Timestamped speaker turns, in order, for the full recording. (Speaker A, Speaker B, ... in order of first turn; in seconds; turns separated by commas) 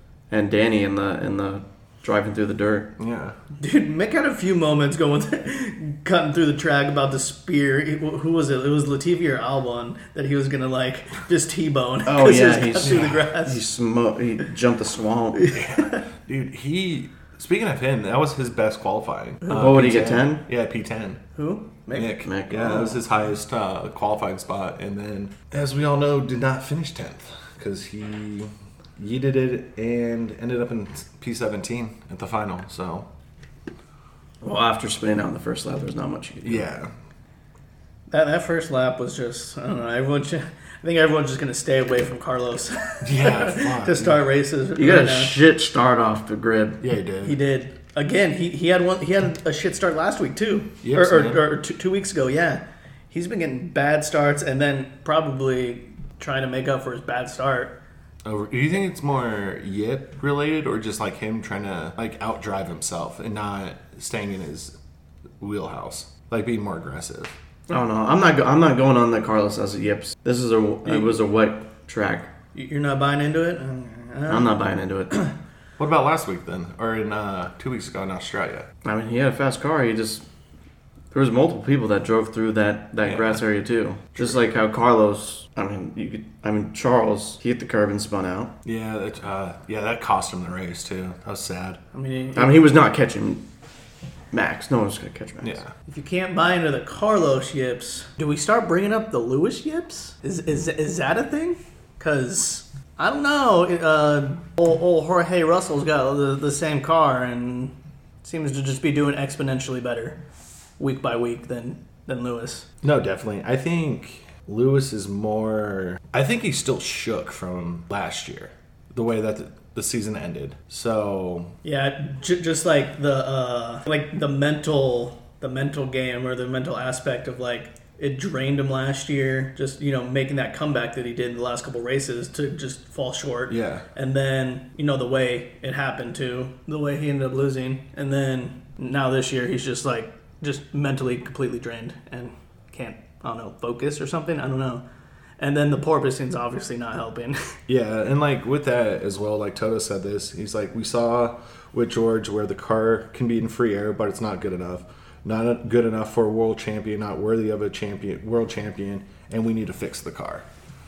Speaker A: 0.3-2.9, Speaker B: 3.0-3.4, Speaker C: 3.6-13.6, Speaker A: 12.0-15.5, Speaker B: 12.8-13.2, Speaker C: 15.4-16.0, Speaker B: 15.5-21.2, Speaker A: 19.5-20.4, Speaker C: 21.3-22.2, Speaker B: 21.9-33.1, Speaker A: 22.2-23.0, Speaker A: 34.4-36.7, Speaker B: 36.4-36.9, Speaker C: 38.1-45.4, Speaker B: 43.0-44.2, Speaker A: 44.8-46.8, Speaker B: 46.8-47.4, Speaker C: 47.2-57.8, Speaker B: 50.8-51.4, Speaker B: 58.2-64.7, Speaker B: 65.4-67.3, Speaker A: 67.7-72.3, Speaker C: 72.5-74.6, Speaker A: 74.3-75.1, Speaker B: 75.8-78.7, Speaker A: 78.8-80.2, Speaker A: 81.1-88.5, Speaker B: 83.0-83.4, Speaker B: 88.6-91.8, Speaker C: 91.9-92.6, Speaker A: 92.3-93.4, Speaker A: 94.3-95.6, Speaker B: 95.4-95.7, Speaker C: 95.9-110.2, Speaker C: 110.8-112.7, Speaker B: 112.8-121.5, Speaker C: 121.6-144.8, Speaker B: 133.5-133.8, Speaker C: 145.4-147.6, Speaker B: 147.7-160.4